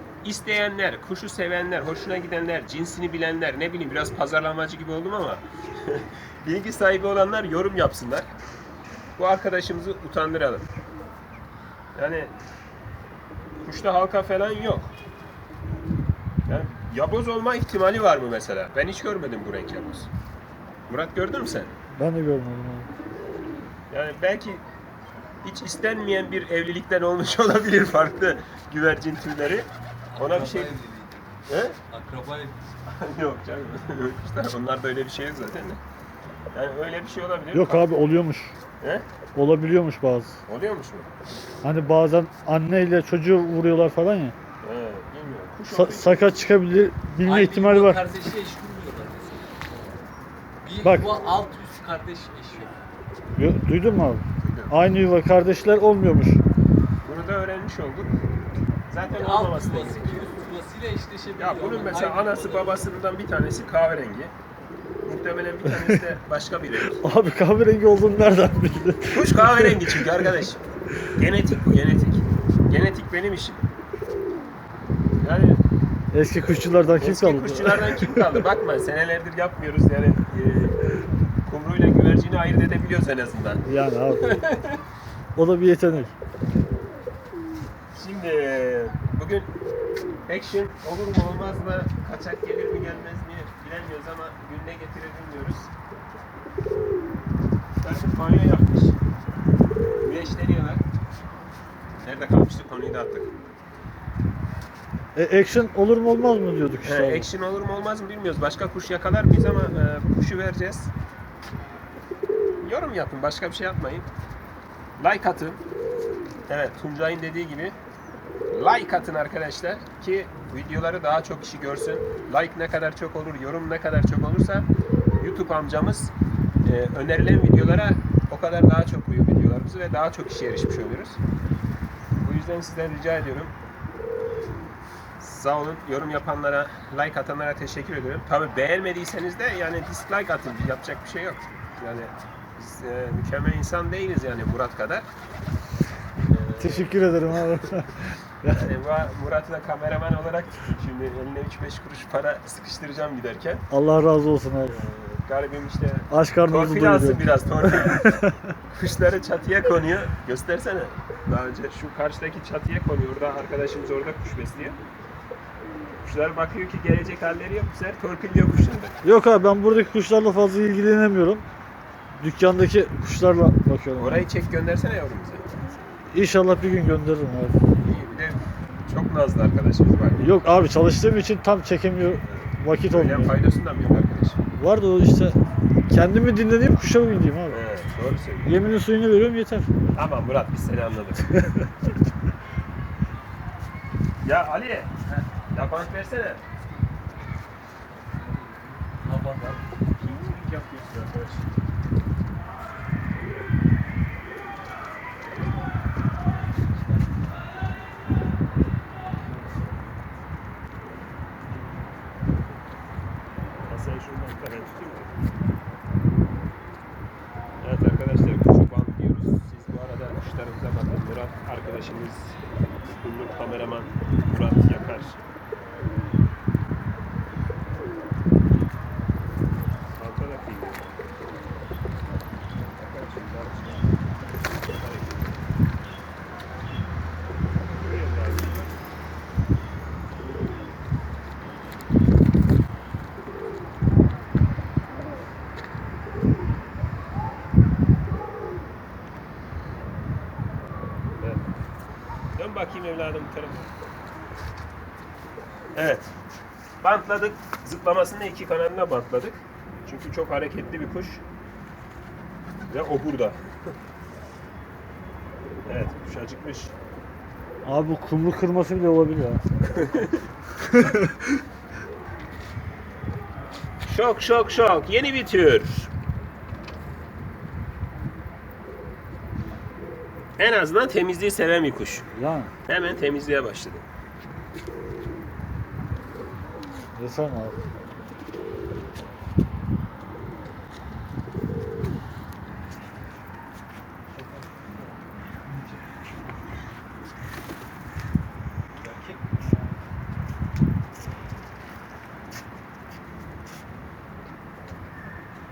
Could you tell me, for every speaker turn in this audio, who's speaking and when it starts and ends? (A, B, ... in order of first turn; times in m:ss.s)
0:00.2-0:08.3 A
0:09.2-0:10.7 A
0:12.0-0:12.3 A
0:13.6-0:14.9 A
0:16.5-0:20.1 A
0:20.9-0:21.7 A
0:21.9-0:22.9 B
0:23.9-0:24.6 A
0:25.4-0:30.8 A
0:30.1-0:32.7 C
0:31.5-0:31.8 A
0:32.9-0:35.8 A
0:36.5-0:38.0 A
0:37.5-0:38.6 B
0:38.8-0:39.1 A
0:39.3-0:40.4 B
0:40.5-0:41.1 A
0:41.6-0:44.4 B
0:44.6-0:46.4 A
0:45.7-0:48.0 B
0:47.2-0:50.0 C
0:50.6-0:52.8 C
0:50.8-0:51.2 B
0:53.4-0:56.4 B
0:54.4-0:54.7 A
0:57.0-0:58.1 A
0:58.9-1:00.2 A
0:59.1-1:02.8 C
1:01.4-1:04.3 A
1:05.0-1:07.0 A
1:05.6-1:06.0 B
1:06.9-1:10.3 B
1:09.1-1:13.7 A
1:15.2-1:15.6 A
1:16.1-1:18.4 B
1:17.0-1:20.8 A
1:21.4-1:24.8 A
1:23.7-1:24.3 B
1:25.4-1:26.1 B
1:27.9-1:29.5 A
1:30.3-1:35.7 A
1:37.8-1:39.0 A
1:40.0-1:40.8 A
1:42.0-1:43.3 A
1:45.2-1:47.3 B
1:46.8-1:50.9 A
1:52.6-1:54.1 A
1:55.0-1:55.6 A
1:56.5-1:57.8 A
1:58.5-2:04.7 A
2:05.2-2:06.1 A
2:06.6-2:11.2 A
2:12.2-2:13.5 A
2:15.2-2:25.1 A
2:26.2-2:27.0 A
2:26.6-2:28.6 B
2:28.5-2:33.6 A
2:33.7-2:34.8 B
2:34.7-2:38.1 A
2:36.1-2:38.4 B
2:38.7-2:44.8 A
2:46.0-2:49.0 A
2:49.0-2:51.4 B
2:52.2-2:54.2 B
2:54.0-2:55.6 A
2:56.1-2:57.6 B
2:57.8-3:00.4 A
3:00.2-3:03.4 B
3:02.3-3:04.4 A
3:04.6-3:07.6 B
3:07.5-3:08.6 A
3:08.4-3:09.7 B
3:09.9-3:11.4 A
3:14.2-3:14.9 A
3:15.5-3:16.4 A
3:17.9-3:19.7 C
3:20.0-3:21.5 A
3:29.4-3:29.7 C
3:33.7-3:35.1 A
3:37.6-3:45.2 A
3:50.0-3:50.9 A
3:52.8-3:55.4 A
3:57.8-3:58.7 A
4:12.4-4:13.7 A
4:15.8-4:16.1 A
4:16.8-4:21.2 A
4:22.7-4:23.4 A
4:25.6-4:26.7 A
4:27.6-4:29.4 B
4:29.7-4:30.1 A
4:33.8-4:35.9 A
4:40.4-4:42.1 A
4:42.1-4:42.5 B
4:42.7-4:43.9 A
4:46.9-4:47.6 B
4:54.4-4:55.0 C
4:58.8-4:59.4 C